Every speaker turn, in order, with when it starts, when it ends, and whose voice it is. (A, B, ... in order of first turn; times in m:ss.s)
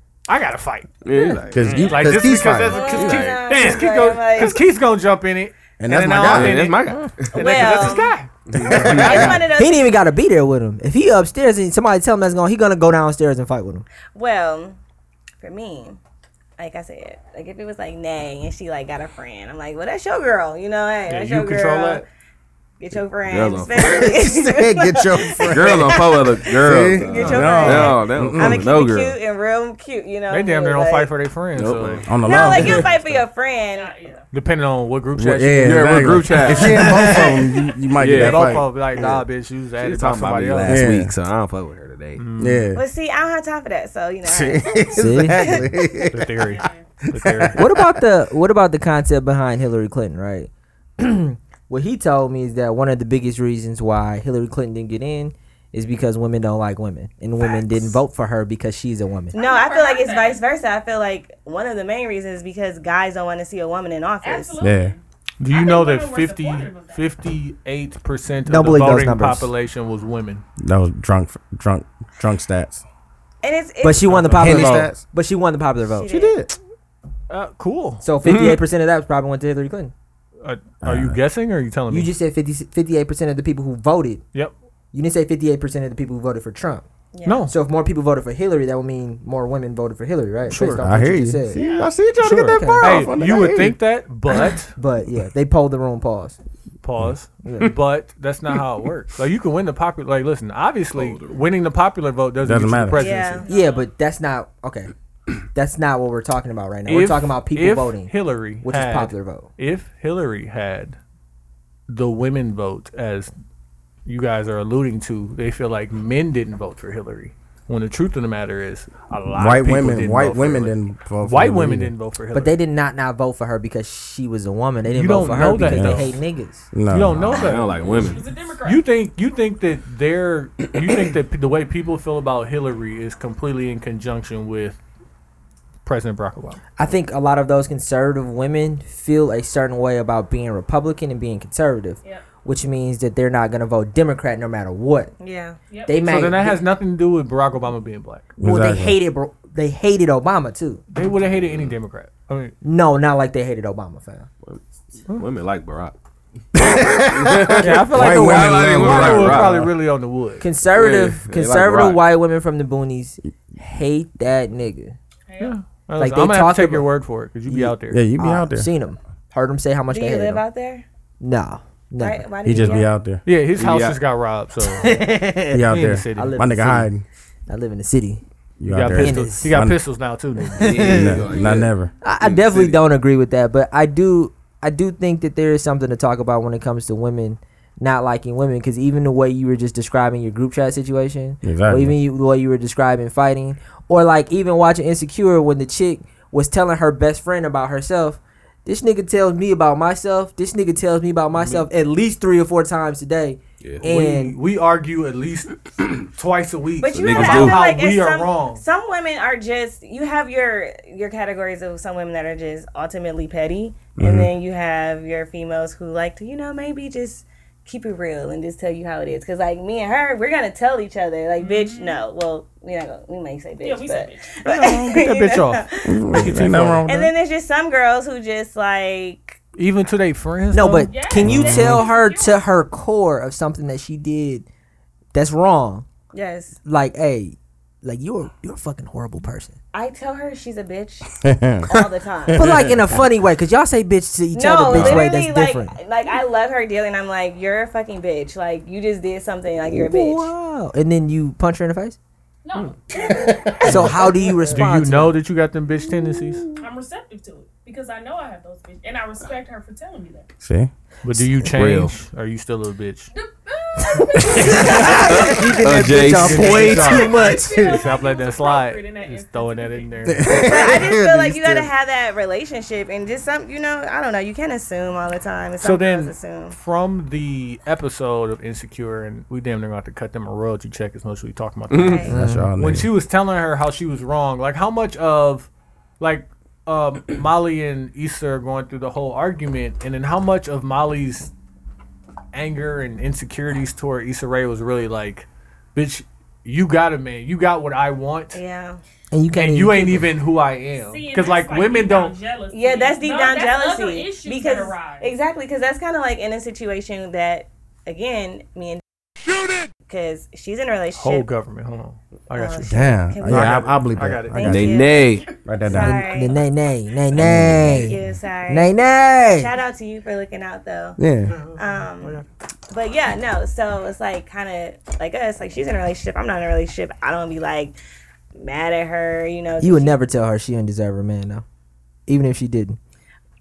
0:00.3-0:08.3 A
0:01.0-0:02.1 B
0:01.1-0:01.4 C
0:01.5-0:03.0 D
0:02.7-0:04.6 E
0:02.8-0:03.8 B
0:05.8-0:06.7 D
0:06.3-0:07.7 B
0:07.3-0:08.2 E
0:08.5-0:09.4 B
0:08.6-0:09.4 D
0:08.7-0:10.0 E
0:09.5-0:13.9 C
0:14.1-0:14.8 E
0:15.4-0:16.0 E
0:16.6-0:22.0 E
0:21.1-0:22.0 A
0:22.8-0:25.9 E
0:23.2-0:24.1 B
0:23.9-0:28.7 D
0:25.5-0:29.2 B
0:26.9-0:31.1 E
0:30.3-0:32.1 A
0:31.6-0:32.1 B
0:32.1-0:32.9 D
0:32.2-0:33.9 E
0:33.7-0:34.3 F
0:34.3-0:36.4 A
0:35.2-0:38.7 D
0:35.6-0:37.3 B
0:38.0-0:38.6 B
0:38.1-0:40.9 A
0:39.0-0:39.2 C
0:39.8-0:42.2 B
0:40.6-0:41.1 D
0:42.2-0:42.7 A
0:42.4-0:42.8 D
0:42.7-0:45.8 E
0:44.2-0:46.3 D
0:45.0-0:45.6 C
0:46.1-0:47.6 A
0:46.4-0:46.9 F
0:47.1-0:47.8 D
0:47.6-0:59.4 C
0:57.4-0:57.9 F
0:59.3-1:04.6 E
0:59.3-1:00.5 F
1:04.2-1:07.1 F
1:04.6-1:05.0 D
1:05.4-1:10.4 A
1:08.5-1:09.5 C
1:10.6-1:12.8 D
1:13.4-1:14.2 E
1:13.8-1:16.3 C
1:14.0-1:14.9 A
1:14.4-1:15.0 D
1:16.0-1:16.4 E
1:16.1-1:16.5 D
1:17.3-1:18.0 A
1:18.0-1:19.9 C
1:18.2-1:18.6 B
1:20.4-1:22.1 A
1:20.8-1:21.2 D
1:21.9-1:24.2 C
1:24.9-1:26.9 C
1:27.1-1:27.5 E
1:27.2-1:27.5 A
1:27.5-1:31.6 C
1:30.5-1:30.8 A
1:30.5-1:33.8 D
1:31.5-1:32.0 F
1:32.2-1:34.7 A
1:32.4-1:33.2 C
1:34.7-1:36.4 C
1:36.8-1:43.4 A
1:37.4-1:37.7 C
1:40.9-1:41.4 B
1:42.4-1:43.1 D
1:42.9-1:43.5 E
1:43.2-1:43.9 F
1:43.5-1:44.9 C
1:45.5-1:49.5 C
1:46.9-1:51.0 A
1:51.9-1:53.3 A
1:54.1-2:02.6 A
1:59.4-2:01.9 D
2:02.3-2:06.7 C
2:04.8-2:06.2 A
2:05.7-2:06.1 D
2:06.7-2:07.3 D
2:06.9-2:07.8 A
2:07.3-2:08.3 B
2:07.7-2:08.9 F
2:08.6-2:14.8 A
2:15.8-2:16.6 A
2:16.8-2:25.1 C
2:25.2-2:25.6 E
2:25.7-2:26.1 F
2:25.9-2:26.6 C
2:25.9-2:28.4 A
2:28.4-2:29.0 D
2:28.4-2:30.8 C
2:30.9-2:32.5 A
2:31.2-2:31.8 B
2:32.6-2:34.3 C
2:34.4-2:36.0 B
2:36.6-2:39.7 D
2:36.9-2:39.7 B
2:37.6-2:40.4 A
2:40.4-2:45.0 C
2:40.7-2:42.0 B
2:45.3-2:45.6 F
2:45.4-2:48.0 A
2:46.0-2:46.9 C
2:47.5-2:50.4 C
2:47.9-2:48.7 D
2:49.9-2:50.8 E
2:51.2-2:52.8 C
2:52.0-2:53.0 E
2:52.4-2:53.2 D
2:53.2-2:56.8 A
2:53.6-2:54.0 B
2:54.7-2:55.6 C
2:55.5-2:57.0 D
2:56.2-2:56.9 C
2:57.5-2:58.2 C
2:58.6-2:59.8 D
2:58.6-3:00.8 A
2:58.9-2:59.5 C
3:00.6-3:01.2 C
3:00.6-3:02.8 B
3:00.8-3:01.9 D
3:02.0-3:24.4 C
3:11.4-3:12.0 D
3:21.4-3:21.7 A
3:23.8-3:25.5 A
3:26.1-3:28.6 A
3:26.8-3:46.3 E
3:26.9-3:27.6 B
3:34.0-3:34.3 D
3:41.4-3:42.0 F
3:43.6-3:44.4 F
3:44.4-3:46.8 A
3:45.8-3:47.1 D
3:46.8-3:49.4 E
3:49.6-3:51.0 A
3:50.5-3:54.5 C
3:50.9-3:52.5 F
3:51.2-3:51.8 D
3:55.1-3:55.9 C
3:56.1-3:56.6 E
3:56.6-3:59.6 C
3:59.7-4:02.6 E
4:01.2-4:03.0 D
4:02.3-4:05.8 C
4:04.3-4:10.3 E
4:04.7-4:05.1 B
4:09.7-4:12.0 C
4:12.4-4:13.3 F
4:13.5-4:13.7 D
4:13.6-4:15.2 C
4:13.7-4:16.5 A
4:16.6-4:20.3 F
4:20.4-4:20.7 D
4:21.0-4:23.1 A
4:21.5-4:22.0 B
4:23.1-4:25.6 F
4:24.1-4:27.9 C
4:24.9-4:27.0 B
4:26.0-4:30.4 A
4:26.8-4:30.1 F
4:30.0-4:31.7 D
4:30.3-4:36.6 E
4:35.6-4:45.5 A
4:41.7-4:42.1 B
4:41.7-4:42.2 E
4:42.1-4:42.5 C
4:42.1-4:42.9 D
4:46.0-4:51.3 A
4:52.3-4:58.4 A
4:58.3-4:58.8 E
4:59.1-5:00.1 C
4:59.3-5:02.2 A
5:00.8-5:05.2 F
5:02.5-5:08.8 E
5:09.9-5:11.3 E
5:11.0-5:14.6 A
5:12.3-5:16.4 E
5:12.7-5:14.8 D
5:14.4-5:15.3 B
5:15.4-5:16.1 D
5:15.8-5:18.0 C
5:17.2-5:17.7 D
5:17.2-5:18.8 E
5:18.5-5:19.5 C
5:19.3-5:21.0 E
5:21.0-5:21.4 D
5:21.3-5:22.3 A
5:21.6-5:27.8 E
5:28.4-5:30.0 E
5:29.6-5:31.4 C
5:32.1-5:32.8 C